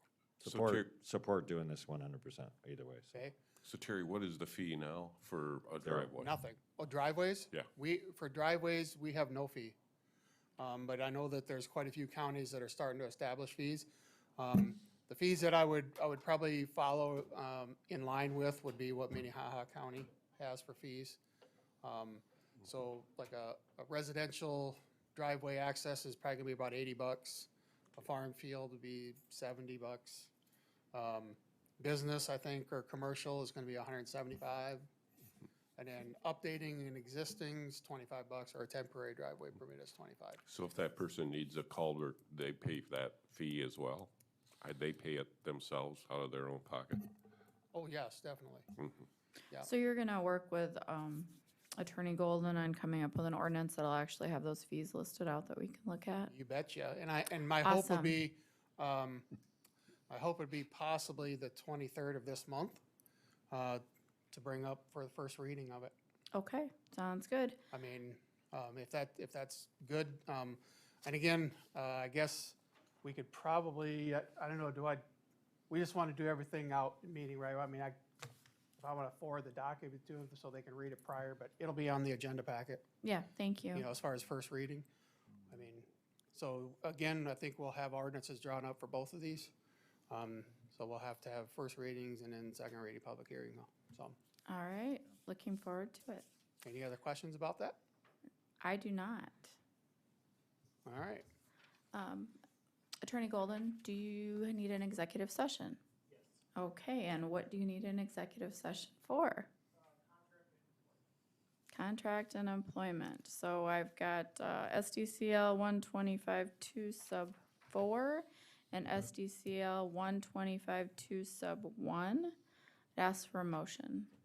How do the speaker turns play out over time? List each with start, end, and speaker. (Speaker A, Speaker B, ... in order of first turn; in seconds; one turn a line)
Speaker A: 0.4-3.1
Speaker B: 0.4-0.9
Speaker B: 3.6-6.3
Speaker C: 6.1-9.8
Speaker C: 10.6-21.2
Speaker C: 21.8-30.3
Speaker C: 30.9-34.9
Speaker C: 35.8-40.4
Speaker B: 40.5-47.0
Speaker C: 47.7-48.7
Speaker B: 48.8-49.1
Speaker D: 49.6-56.3
Speaker C: 56.3-59.3
Speaker D: 57.6-58.2
Speaker C: 60.1-62.8
Speaker C: 63.5-65.9
Speaker D: 66.3-67.6
Speaker C: 67.7-75.0
Speaker C: 75.7-78.0
Speaker C: 78.8-82.8
Speaker D: 83.0-83.9
Speaker C: 83.7-84.9
Speaker C: 85.5-89.5
Speaker C: 90.1-94.2
Speaker D: 94.5-96.3
Speaker C: 96.6-97.8
Speaker D: 98.6-99.6
Speaker C: 100.8-101.3
Speaker D: 101.9-102.4
Speaker D: 103.0-105.8
Speaker D: 106.5-109.5
Speaker D: 111.7-122.4
Speaker D: 123.0-124.1